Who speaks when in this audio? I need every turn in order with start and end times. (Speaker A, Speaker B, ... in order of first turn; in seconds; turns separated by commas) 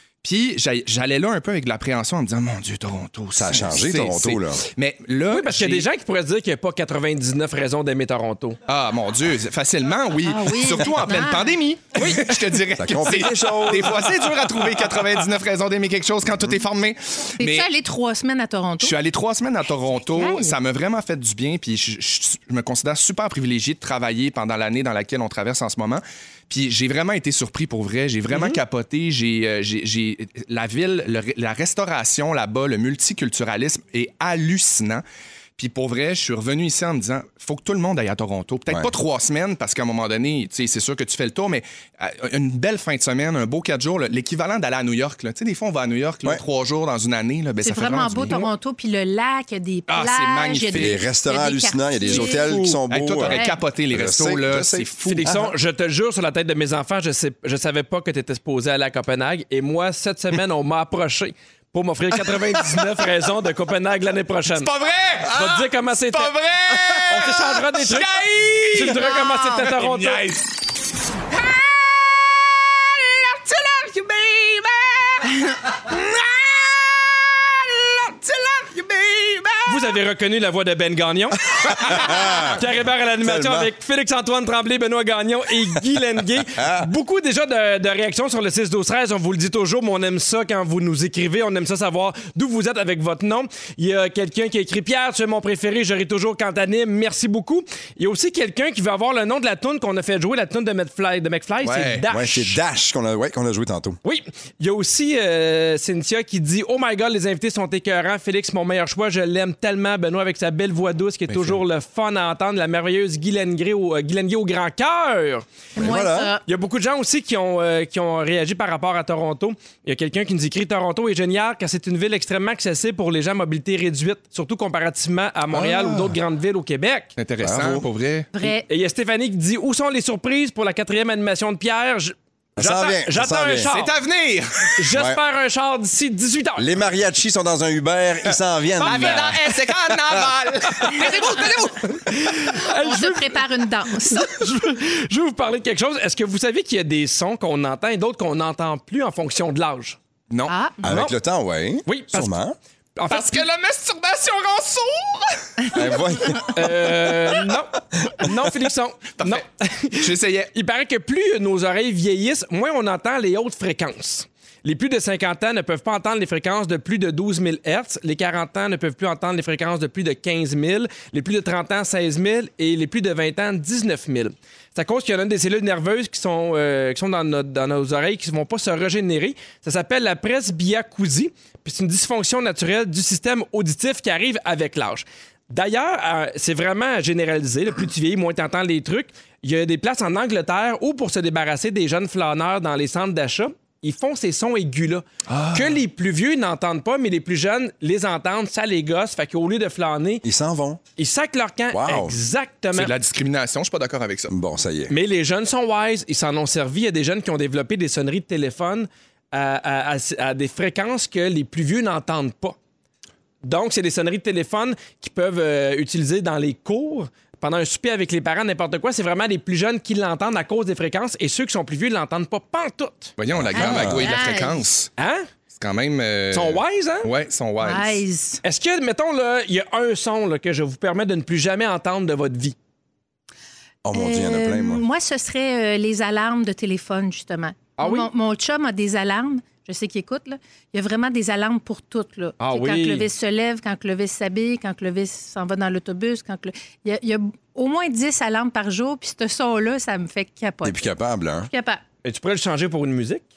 Speaker A: 0.2-5.9, Speaker B: 3.4-4.6, Speaker C: 5.3-8.6, Speaker A: 8.7-17.7, Speaker D: 10.2-11.6, Speaker C: 12.0-12.2, Speaker B: 12.7-14.1, Speaker D: 17.4-19.0, Speaker A: 18.8-35.0, Speaker D: 20.0-20.5, Speaker C: 28.3-28.6, Speaker A: 35.6-48.4, Speaker D: 47.6-52.6, Speaker A: 49.9-51.0, Speaker B: 50.7-55.5, Speaker A: 52.0-55.3, Speaker D: 53.2-53.6, Speaker C: 55.1-64.7, Speaker A: 64.5-70.4, Speaker C: 65.3-66.3, Speaker C: 67.1-68.2, Speaker C: 68.7-70.2, Speaker A: 73.5-75.2, Speaker A: 78.3-79.6, Speaker C: 79.7-102.5, Speaker B: 81.7-82.6, Speaker B: 83.2-83.7, Speaker B: 86.6-86.8, Speaker A: 101.6-102.1, Speaker B: 102.1-104.0, Speaker C: 104.0-115.4, Speaker A: 111.3-111.6, Speaker D: 115.8-116.4, Speaker B: 115.8-116.3, Speaker C: 116.5-127.1, Speaker A: 125.5-126.2, Speaker A: 127.2-128.3, Speaker B: 127.4-127.8, Speaker D: 128.3-128.7, Speaker C: 128.4-133.9, Speaker B: 132.6-133.7, Speaker A: 133.7-134.7, Speaker C: 134.8-136.7, Speaker B: 134.9-135.2, Speaker B: 136.6-140.3, Speaker A: 138.8-141.9, Speaker C: 138.8-139.3, Speaker C: 140.8-143.4, Speaker D: 141.1-141.7, Speaker D: 142.7-144.5, Speaker C: 144.1-150.0, Speaker D: 150.5-150.8, Speaker B: 150.8-152.6, Speaker C: 150.8-151.1, Speaker C: 151.8-152.4, Speaker C: 153.0-153.4, Speaker A: 153.1-155.6, Speaker B: 155.7-156.5, Speaker C: 156.5-200.2, Speaker A: 159.2-159.4, Speaker A: 160.0-160.5, Speaker A: 195.3-195.8, Speaker B: 200.2-200.8, Speaker C: 201.0-202.9, Speaker B: 201.7-202.1, Speaker A: 202.7-204.3, Speaker B: 204.3-204.9, Speaker C: 204.9-212.6, Speaker C: 213.4-223.1, Speaker A: 223.2-224.9, Speaker B: 223.3-224.2, Speaker D: 223.5-224.6, Speaker C: 225.0-225.2, Speaker A: 225.5-228.0, Speaker C: 226.3-227.1, Speaker D: 227.6-228.4, Speaker C: 228.4-232.6, Speaker B: 233.8-234.8, Speaker D: 233.9-250.8, Speaker C: 237.8-238.1, Speaker C: 242.4-243.1, Speaker B: 250.6-251.5, Speaker D: 251.5-251.8, Speaker C: 252.0-253.2